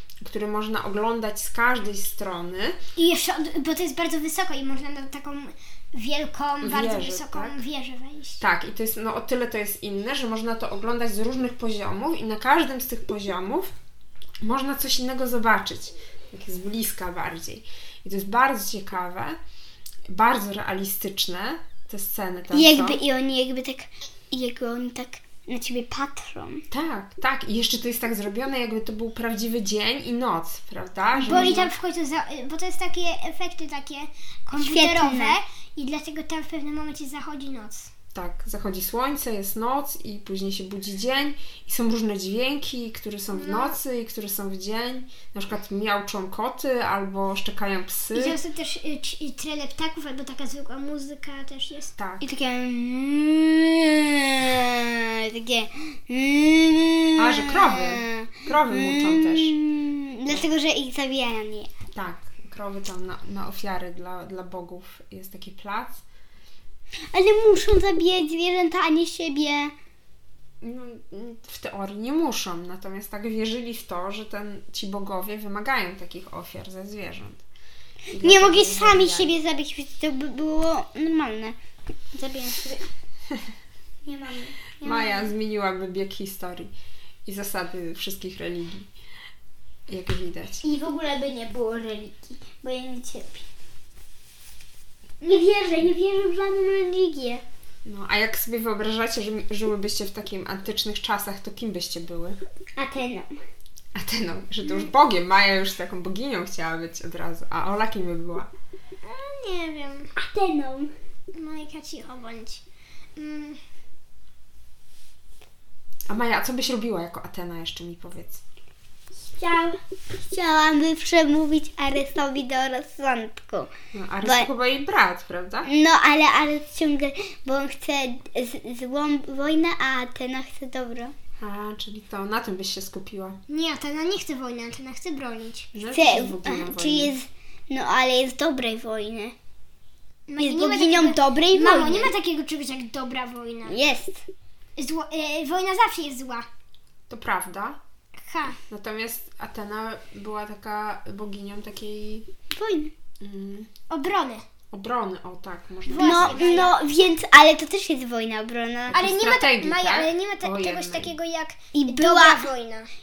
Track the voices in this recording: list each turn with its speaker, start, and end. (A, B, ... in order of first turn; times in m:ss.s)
0:00.2-0:02.8 A
0:03.0-0:08.4 B
0:06.6-0:07.6 A
0:08.4-0:13.7 A
0:14.4-0:19.4 A
0:20.1-0:23.0 A
0:22.5-0:26.6 C
0:26.7-0:31.7 A
0:31.2-0:37.9 B
0:34.5-0:35.4 C
0:38.1-0:48.4 A
0:43.3-0:43.8 B
0:48.1-0:51.9 B
0:52.0-0:52.2 A
0:52.2-1:01.7 C
0:57.2-0:59.5 A
1:01.9-1:06.0 A
1:07.1-1:09.7 C
1:10.6-1:17.4 A
1:18.1-1:19.3 A
1:18.2-1:21.6 C
1:22.1-1:22.8 C
1:24.0-1:25.3 C
1:24.8-1:26.7 A
1:27.2-1:28.9 A
1:29.9-1:30.6 A
1:30.6-1:33.5 C
1:35.2-1:37.4 C
1:37.8-1:42.4 A
1:42.8-1:43.3 C
1:43.9-1:48.5 A
1:49.0-1:50.1 B
1:50.2-1:50.9 C
1:51.3-1:52.6 B
1:53.2-1:53.6 B
1:56.1-1:58.4 A
1:59.1-2:03.7 C
2:03.9-2:05.7 A
2:04.2-2:04.5 C
2:05.6-2:11.1 C
2:11.4-2:13.4 A
2:13.5-2:15.7 B
2:15.7-2:17.1 A
2:15.9-2:19.4 C
2:20.3-2:23.8 B
2:20.4-2:22.1 C
2:23.7-2:24.2 C
2:24.8-2:26.4 B
2:27.1-2:27.8 A
2:28.3-2:28.6 B
2:28.7-2:32.3 A
2:32.5-2:32.9 C
2:33.2-2:33.7 A
2:33.9-2:34.4 B
2:34.7-2:36.7 A
2:35.9-2:36.8 B
2:36.0-2:39.0 C
2:38.9-2:41.1 A
2:38.9-2:42.9 B
2:41.7-2:42.5 C